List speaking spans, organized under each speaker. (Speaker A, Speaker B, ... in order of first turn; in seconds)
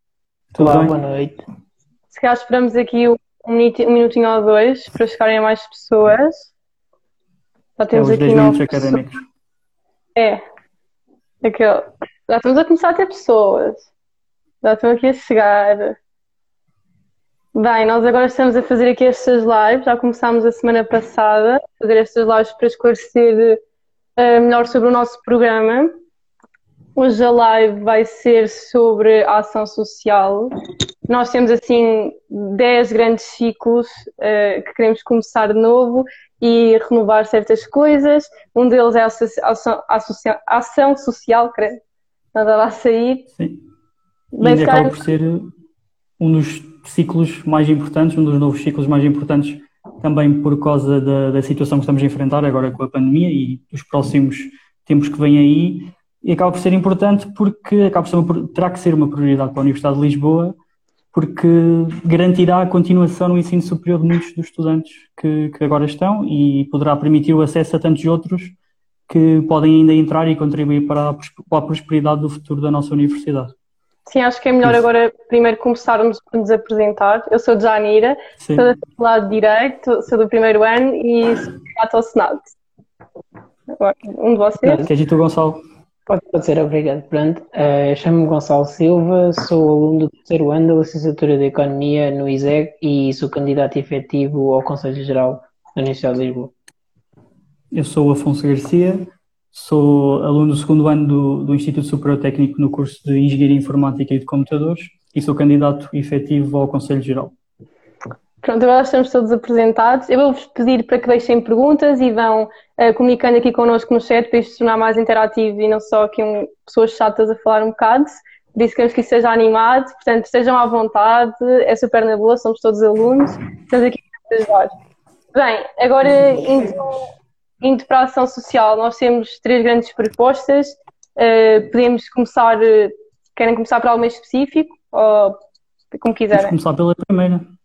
Speaker A: 0.5-0.9, 7.9-9.2, 43.4-43.6, 44.4-45.5, 46.2-60.5, 61.1-68.5, 69.1-73.5, 78.4-78.7, 84.8-85.6, 97.7-107.3, 136.3-137.4
Speaker B: 0.6-1.4, 84.6-84.9, 86.1-96.5
Speaker C: 2.1-6.5, 7.8-8.9, 10.2-10.4, 11.4-13.9, 14.6-16.0, 17.5-23.6, 24.2-25.9, 26.9-30.5, 31.1-41.8, 42.3-43.2, 44.4-45.0, 74.0-82.5, 83.7-84.8, 108.4-124.7, 125.3-127.0, 127.6-135.4, 135.9-136.5